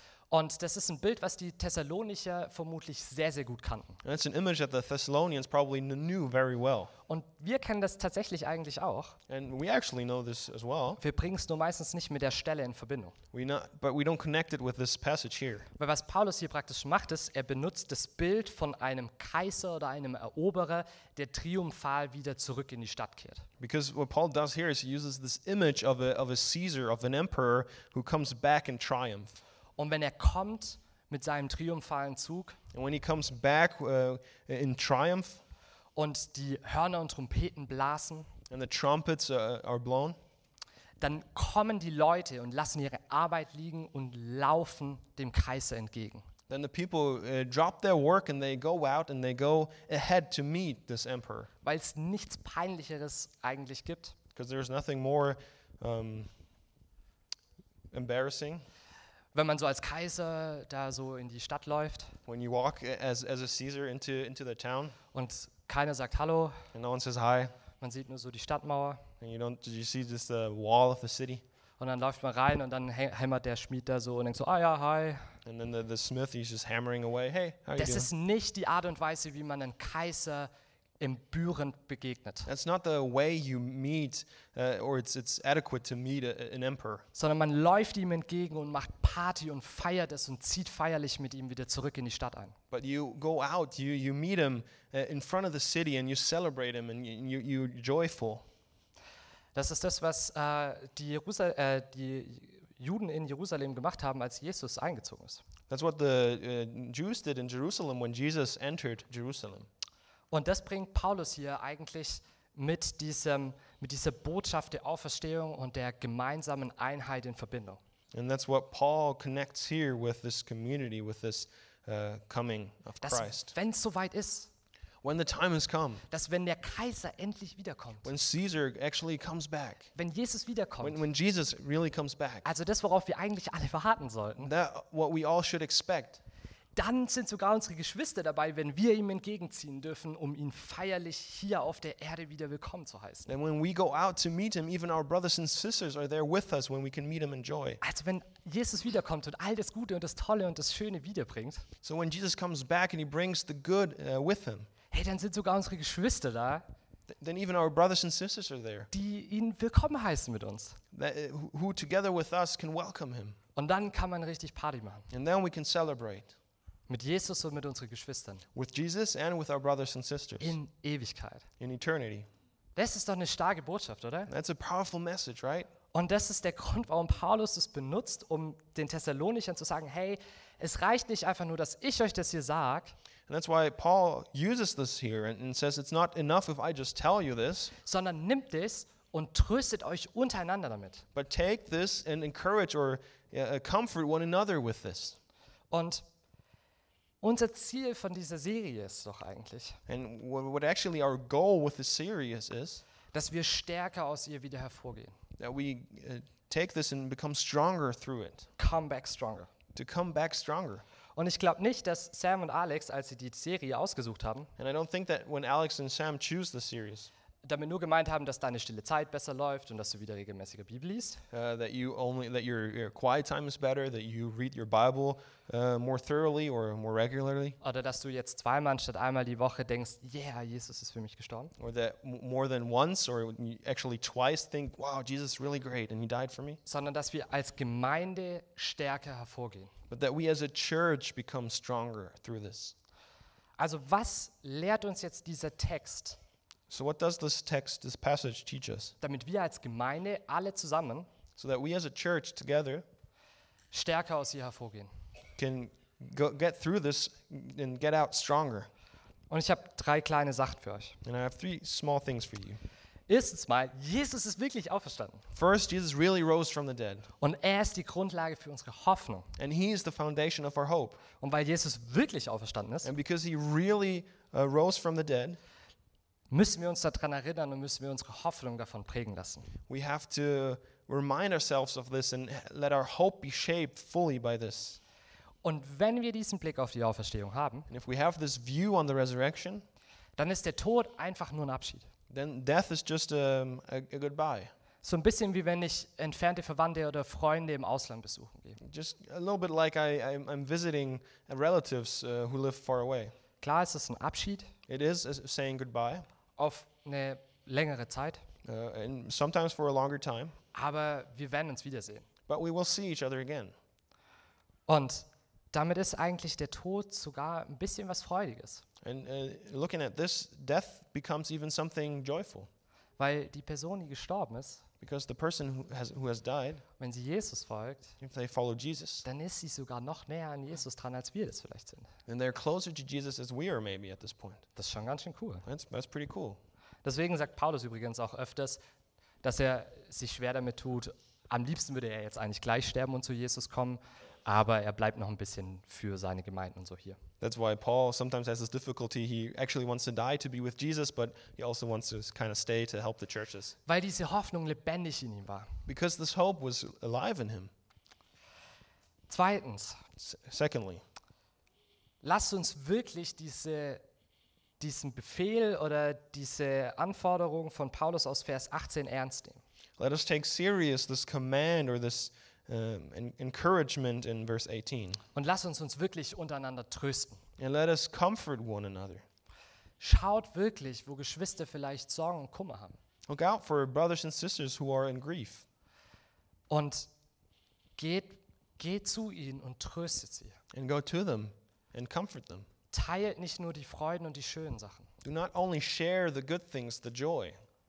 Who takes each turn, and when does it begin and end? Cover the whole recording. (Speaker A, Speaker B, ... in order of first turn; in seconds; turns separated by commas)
Speaker A: 0.3-4.0, Speaker B: 4.0-6.9, Speaker A: 7.1-9.2, Speaker B: 9.3-11.0, Speaker A: 11.0-13.1, Speaker B: 13.3-15.7, Speaker A: 15.8-23.4, Speaker B: 23.6-29.4, Speaker A: 29.8-32.6, Speaker B: 32.7-35.4, Speaker A: 36.0-38.3, Speaker B: 38.5-40.2, Speaker A: 41.0-46.2, Speaker B: 46.5-51.5, Speaker A: 51.6-54.1, Speaker B: 54.3-56.3, Speaker B: 57.9-58.6, Speaker A: 59.3-62.2, Speaker B: 62.3-65.0, Speaker A: 65.1-66.7, Speaker B: 66.7-67.5, Speaker A: 67.8-69.0, Speaker B: 69.2-71.4, Speaker A: 71.8-75.3, Speaker B: 75.4-78.1, Speaker A: 77.8-82.5, Speaker B: 82.5-87.0, Speaker A: 87.1-92.5, Speaker B: 92.7-98.4, Speaker A: 99.5-105.4, Speaker B: 105.7-109.7, Speaker A: 110.3-117.8, Speaker B: 118.1-123.5, Speaker A: 123.0-124.5, Speaker B: 125.0-126.0, Speaker A: 126.1-128.1, Speaker B: 128.0-129.9, Speaker A: 129.9-131.0, Speaker B: 130.8-132.5, Speaker A: 132.4-134.5, Speaker B: 134.4-136.2, Speaker A: 136.8-143.3, Speaker B: 143.3-147.8, Speaker A: 147.8-151.6, Speaker B: 151.8-154.7, Speaker A: 154.9-156.6, Speaker B: 157.2-158.9, Speaker A: 158.9-160.8, Speaker B: 160.9-163.4, Speaker A: 163.6-165.1, Speaker B: 165.1-166.3, Speaker A: 166.9-168.4, Speaker B: 168.5-170.6, Speaker A: 170.4-171.5, Speaker B: 171.6-172.3, Speaker A: 172.8-174.3, Speaker B: 174.3-175.7, Speaker A: 175.9-182.9, Speaker B: 183.3-187.7, Speaker A: 187.8-191.0, Speaker B: 191.1-195.2, Speaker A: 195.7-196.0, Speaker A: 197.2-199.8, Speaker B: 199.9-202.8, Speaker A: 203.1-205.1, Speaker B: 205.4-208.5, Speaker A: 208.6-209.5, Speaker B: 209.7-210.8, Speaker A: 211.2-214.5, Speaker B: 214.6-217.1, Speaker A: 217.4-221.2, Speaker B: 221.3-227.6, Speaker A: 227.6-231.5, Speaker B: 231.6-236.6, Speaker A: 236.7-239.7, Speaker B: 239.9-242.7, Speaker A: 243.6-246.2, Speaker B: 246.7-248.9, Speaker A: 249.0-251.1, Speaker B: 251.4-252.8, Speaker A: 253.7-254.9, Speaker B: 255.4-258.7, Speaker A: 259.3-261.0, Speaker B: 261.0-262.6, Speaker A: 263.1-265.2, Speaker B: 265.3-267.1, Speaker A: 267.2-269.3, Speaker B: 269.4-271.0, Speaker A: 271.2-272.9, Speaker B: 272.8-275.4, Speaker A: 276.3-279.5, Speaker B: 279.7-284.8, Speaker A: 285.4-287.7, Speaker B: 287.7-289.6, Speaker A: 290.2-291.9, Speaker B: 292.1-294.5, Speaker A: 294.8-298.6, Speaker B: 298.6-303.1, Speaker A: 303.4-304.5, Speaker B: 304.7-306.1, Speaker A: 306.4-308.2, Speaker B: 308.4-310.3, Speaker A: 310.5-312.1, Speaker B: 312.3-313.5, Speaker A: 314.7-318.6, Speaker B: 318.8-322.5, Speaker A: 323.0-324.6, Speaker B: 324.8-326.6, Speaker A: 326.8-327.9, Speaker B: 328.0-329.0, Speaker A: 329.0-331.9, Speaker B: 332.1-334.4, Speaker A: 334.6-335.4, Speaker B: 335.4-336.4, Speaker A: 336.8-338.6, Speaker A: 339.2-347.0, Speaker B: 347.2-353.6, Speaker A: 353.7-355.5, Speaker B: 355.7-357.5, Speaker A: 359.1-359.8, Speaker B: 360.0-360.8, Speaker A: 362.0-363.8, Speaker A: 364.6-369.4, Speaker B: 369.8-375.0, Speaker A: 375.1-377.2, Speaker B: 377.4-379.0, Speaker A: 379.8-382.8, Speaker B: 383.1-385.4, Speaker A: 386.5-386.9, Speaker A: 387.8-390.4, Speaker B: 390.5-392.5, Speaker A: 392.7-394.9, Speaker B: 395.0-397.4